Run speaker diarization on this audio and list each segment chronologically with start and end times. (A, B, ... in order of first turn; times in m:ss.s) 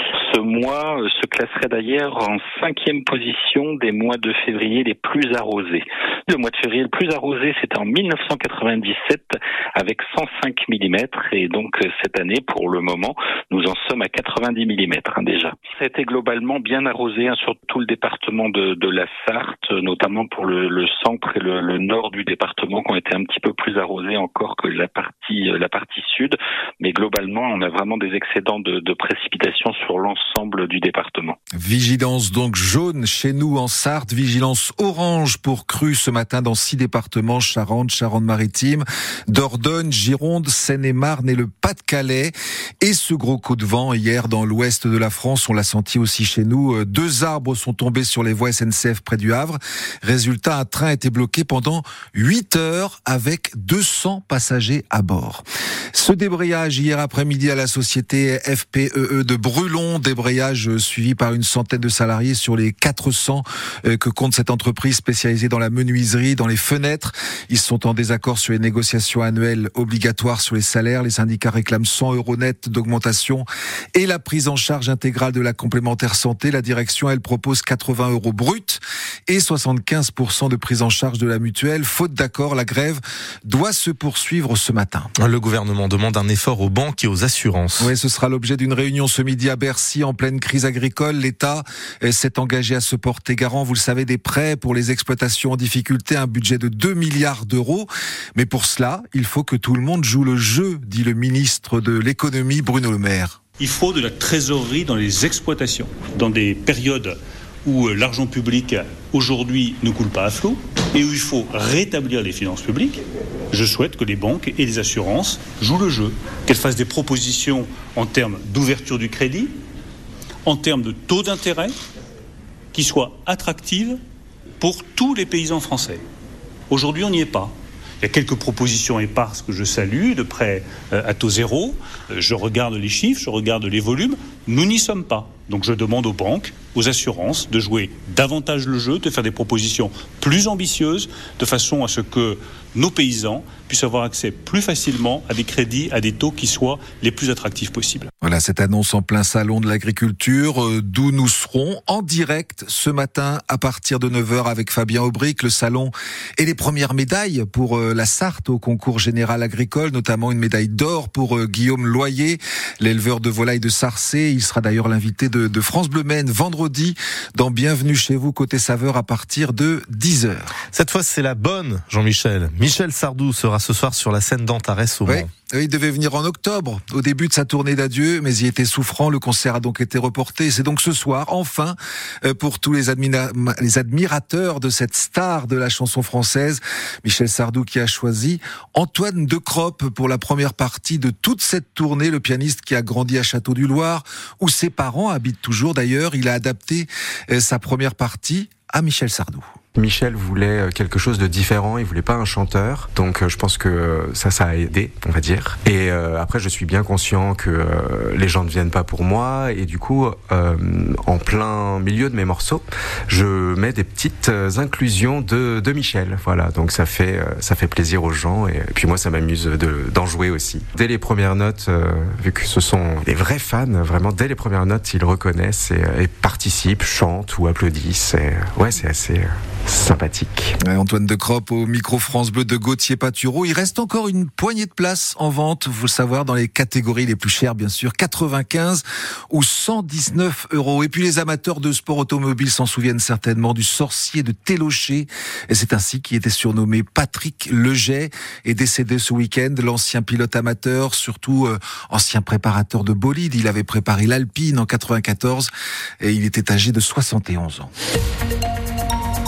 0:00.3-0:31.4 A
0:31.5-1:25.1 B
1:25.2-1:27.9 C
1:27.8-1:43.4 B
1:43.6-1:59.5 D
2:00.4-2:01.7 D
2:02.7-2:04.0 D
2:04.6-2:06.0 D
2:06.7-2:28.1 D
2:28.2-2:50.4 B
2:50.7-2:55.3 C
2:55.1-3:19.4 B
3:19.8-3:50.6 E
3:50.6-4:17.7 B